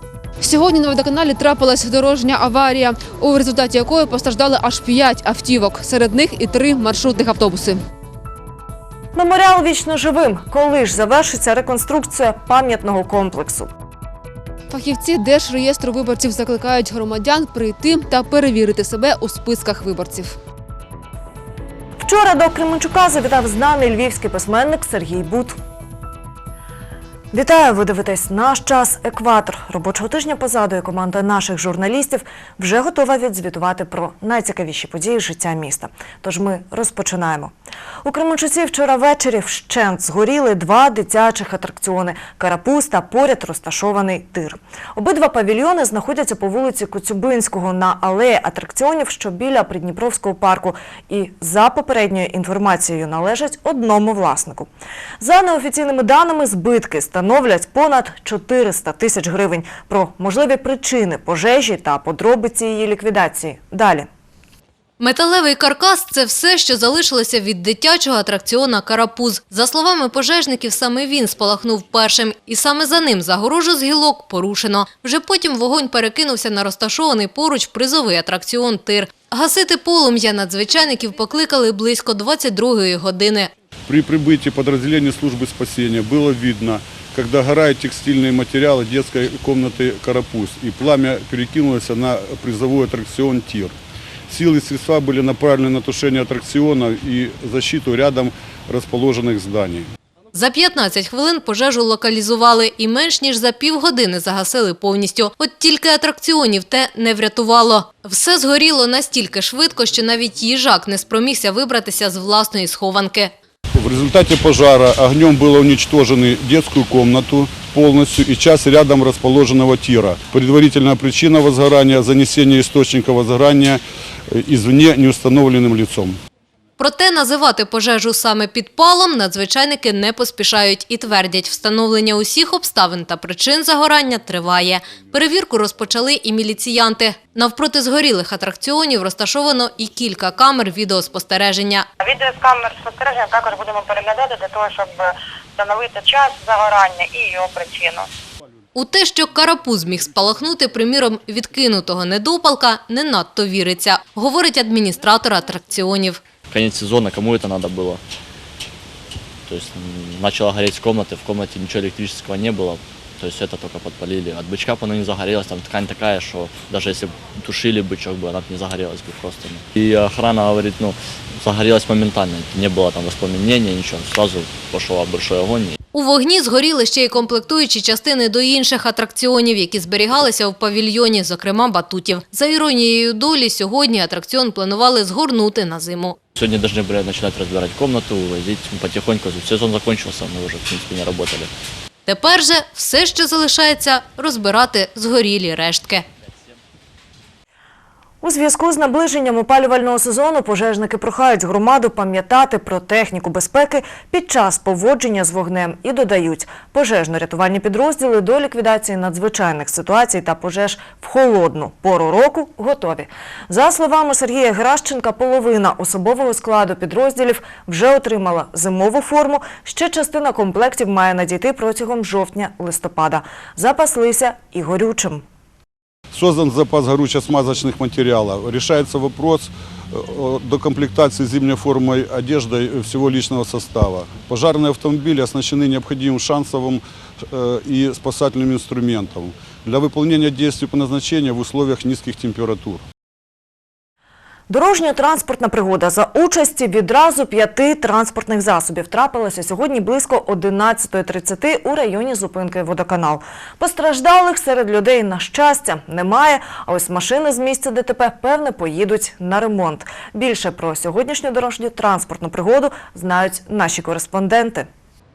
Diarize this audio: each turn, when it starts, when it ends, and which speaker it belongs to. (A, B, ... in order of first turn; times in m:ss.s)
0:00.4-0:07.8 A
0:09.2-0:13.7 B
0:14.7-0:20.4 A
0:22.0-0:25.6 B
0:27.3-0:37.5 B
0:38.0-0:54.7 B
0:55.2-1:04.1 B
1:05.0-1:23.5 C
1:23.9-1:33.8 D
1:34.3-1:39.9 D
1:40.3-1:53.3 C
1:53.8-2:03.8 D
2:04.3-2:06.2 D
2:06.8-2:21.9 C
2:22.0-2:28.1 E
2:28.8-2:36.2 C
2:36.5-2:38.0 F
2:39.5-2:55.8 F
2:55.9-3:06.2 C
3:06.4-3:11.5 F
3:12.1-3:16.0 C
3:18.2-3:45.2 B
3:46.1-4:02.8 D
4:04.5-4:24.7 B